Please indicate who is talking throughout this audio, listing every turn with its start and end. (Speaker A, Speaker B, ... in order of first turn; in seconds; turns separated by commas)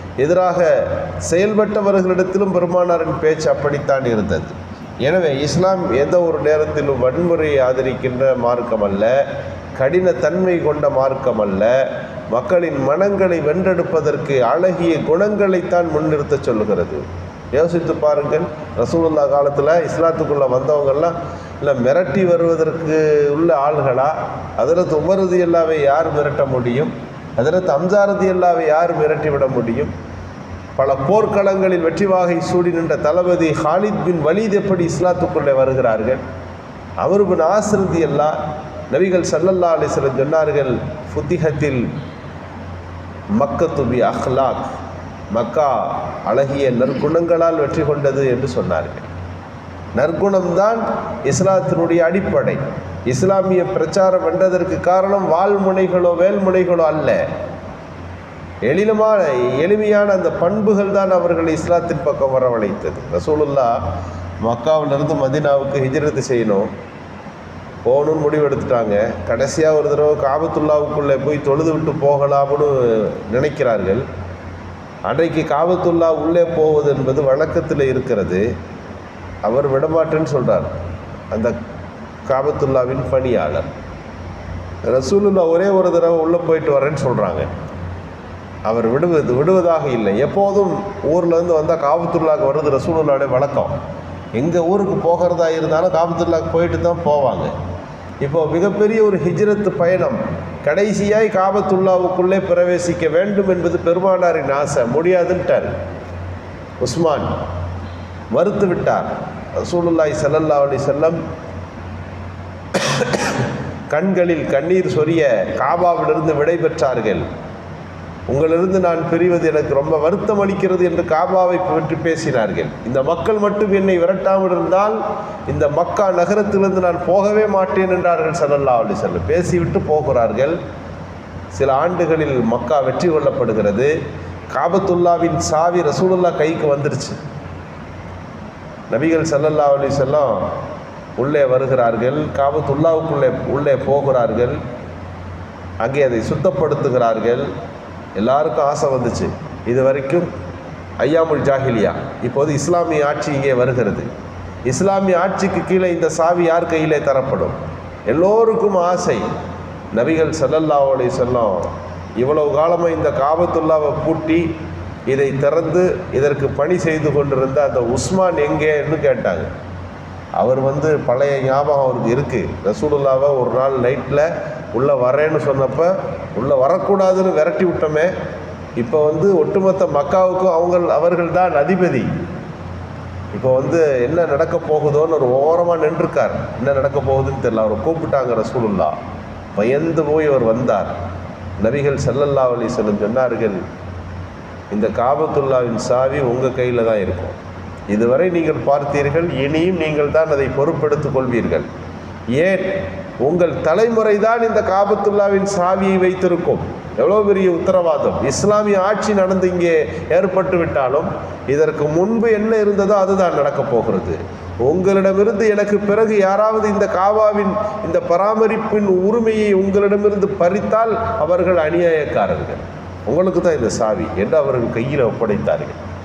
Speaker A: 0.2-9.1, Speaker A: 9.8-11.7, Speaker A: 12.3-17.0, Speaker A: 17.5-29.9, Speaker A: 30.8-36.2, Speaker A: 37.0-38.3, Speaker A: 38.9-41.9, Speaker A: 43.4-44.7, Speaker A: 45.3-49.1, Speaker A: 50.0-57.2, Speaker A: 58.7-63.8, Speaker A: 64.4-66.7, Speaker A: 67.8-74.0, Speaker A: 75.1-78.4, Speaker A: 79.4-80.7, Speaker A: 82.3-83.7, Speaker A: 84.8-87.5, Speaker A: 88.7-93.7, Speaker A: 94.3-97.5, Speaker A: 98.2-105.7, Speaker A: 106.8-107.3, Speaker A: 108.3-111.2, Speaker A: 112.8-117.2, Speaker A: 118.3-130.6, Speaker A: 131.5-133.9, Speaker A: 134.5-137.2, Speaker A: 138.9-140.5, Speaker A: 141.2-144.6, Speaker A: 145.8-147.5, Speaker A: 148.2-150.3, Speaker A: 151.0-154.1, Speaker A: 154.7-157.6, Speaker A: 158.1-159.3, Speaker A: 159.9-161.7, Speaker A: 162.2-164.5, Speaker A: 165.1-169.5, Speaker A: 170.4-178.1, Speaker A: 178.8-182.1, Speaker A: 183.3-188.9, Speaker A: 189.5-190.9, Speaker A: 191.6-193.6, Speaker A: 194.7-197.4, Speaker A: 197.9-201.7, Speaker A: 202.3-225.8